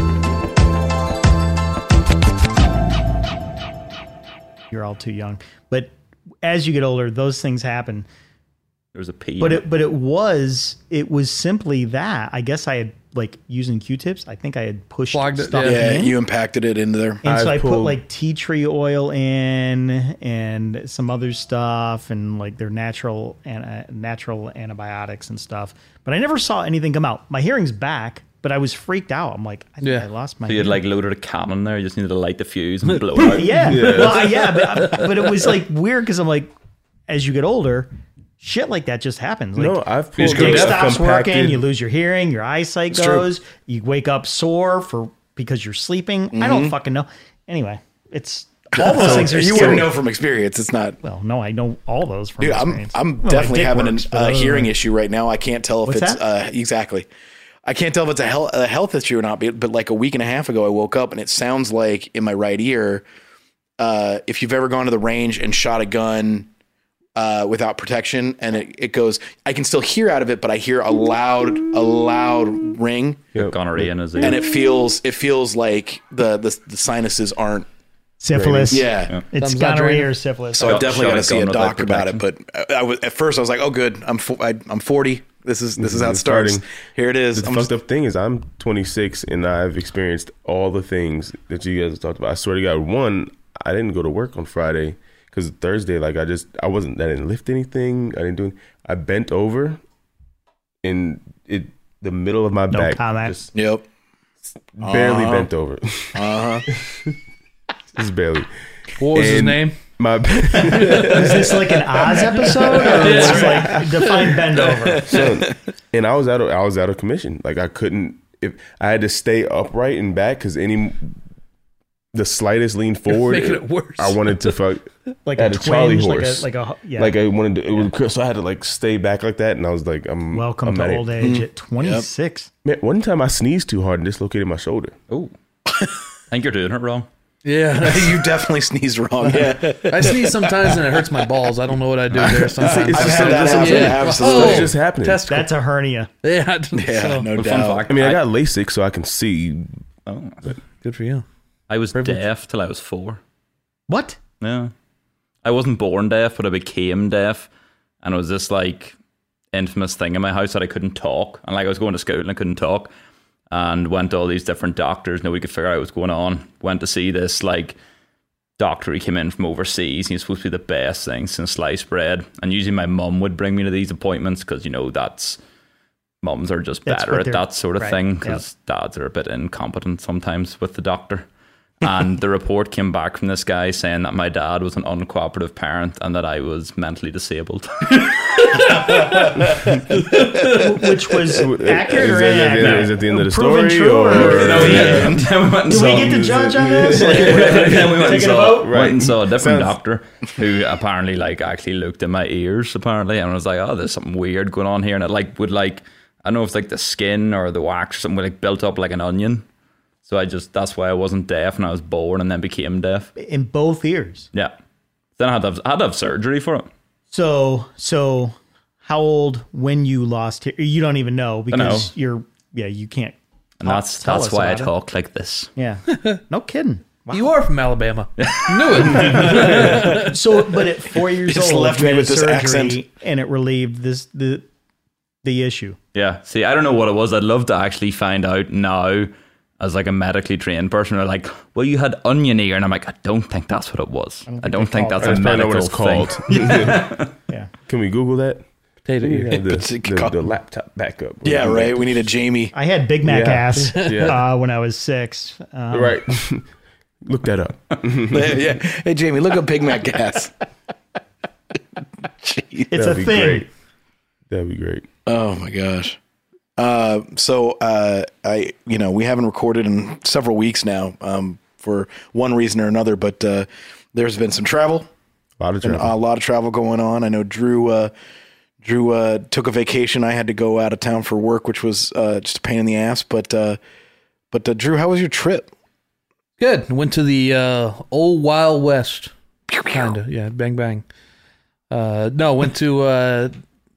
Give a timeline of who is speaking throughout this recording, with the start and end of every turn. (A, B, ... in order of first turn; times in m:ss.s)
0:04.7-0:08.1 A
0:08.9-0:09.6 B
0:09.4-0:16.1 A
0:15.1-0:16.0 C
0:15.6-0:17.2 D
0:17.2-0:30.8 A
0:17.2-0:18.0 E
0:29.8-0:30.1 C
0:30.5-0:33.6 B
0:32.9-0:35.3 C
0:33.2-0:36.5 A
0:33.6-0:34.3 E
0:37.1-0:49.9 A
0:39.6-0:41.6 E
0:40.2-0:40.9 C
0:42.9-0:43.3 D
0:46.3-0:46.8 D
0:48.7-0:51.0 D
0:48.9-0:49.9 E
0:51.0-0:54.7 A
0:52.4-0:57.1 D
0:55.9-0:56.2 A
0:57.6-1:03.0 D
1:03.8-1:06.5 D
1:07.2-1:13.3 D
1:13.4-1:14.3 E
1:13.4-1:14.4 B
1:14.2-1:17.7 D
1:18.2-1:20.8 A
1:18.3-1:18.8 E
1:18.7-1:19.1 D
1:19.4-1:20.1 C
1:20.5-1:27.7 D
1:20.6-1:22.2 B
1:25.8-1:26.7 E
1:27.3-1:39.8 E
1:40.8-1:43.5 E
1:42.7-1:43.4 A
1:43.5-1:43.8 D
1:44.8-1:47.1 E
1:44.8-1:45.5 D
1:46.1-1:46.7 D
1:48.0-1:48.5 E
1:49.0-1:49.8 C
1:49.1-1:53.1 E
1:50.5-1:51.4 C
1:51.1-1:55.2 A
1:52.8-1:53.9 C
1:52.8-1:53.8 D
1:55.0-2:01.2 E
2:02.1-2:11.1 E
2:03.1-2:04.6 C
2:05.3-2:07.2 A
2:10.3-2:12.5 A
2:11.2-2:12.1 D
2:12.6-2:15.0 E
2:16.3-2:17.1 B
2:17.4-2:18.3 C
2:17.8-2:21.0 D
2:19.2-2:25.5 C
2:22.2-2:24.7 D
2:22.6-2:25.3 E
2:25.3-2:26.1 A
2:26.2-2:27.3 C
2:26.7-2:27.8 D
2:27.4-2:28.2 B
2:27.9-2:29.7 E
2:30.1-2:30.4 B
2:30.8-2:31.2 C
2:31.7-2:33.2 B
2:31.9-2:32.2 C
2:33.9-2:34.2 A
2:34.4-2:34.7 B
2:35.4-2:37.5 B
2:38.0-2:39.0 B
2:39.5-2:42.9 B
2:43.5-2:47.8 B
2:48.6-2:55.4 B
2:56.2-3:01.3 B
2:56.9-2:58.4 A
3:01.8-3:09.9 B
3:08.5-3:09.4 C
3:09.9-3:10.7 C
3:10.4-3:18.7 A
3:11.3-3:19.8 E
3:14.1-3:16.2 B
3:17.0-3:29.4 B
3:30.0-3:33.1 B
3:33.2-3:34.3 A
3:35.2-3:36.7 B
3:37.1-3:44.7 A
3:41.5-3:41.9 B
3:43.6-3:45.5 B
3:45.6-3:47.3 A
3:45.9-3:46.2 C
3:47.1-3:50.2 C
3:48.2-3:49.8 B
3:48.9-3:49.2 E
3:49.2-3:54.4 A
3:51.3-3:52.8 D
3:55.2-3:55.8 A
3:55.9-4:07.1 B
4:04.3-4:05.3 A
4:05.0-4:06.9 E
4:06.3-4:06.8 A
4:07.7-4:08.4 E
4:08.9-4:09.4 C
4:09.0-4:12.0 E
4:09.4-4:10.2 D
4:11.2-4:12.5 D
4:12.5-4:16.0 A
4:13.0-4:14.2 E
4:13.6-4:14.2 C
4:15.7-4:16.5 E
4:17.1-4:18.4 E
4:18.1-4:20.3 D
4:22.0-4:22.7 D
4:22.7-4:23.5 A
4:22.7-4:23.5 E
4:24.3-4:24.9 E
4:25.1-4:26.0 D
4:26.6-4:34.9 D
4:35.4-4:35.9 E
4:35.6-4:37.9 D
4:38.6-4:43.6 D
4:44.3-4:45.5 D
4:46.4-4:50.8 C
4:51.7-4:53.3 C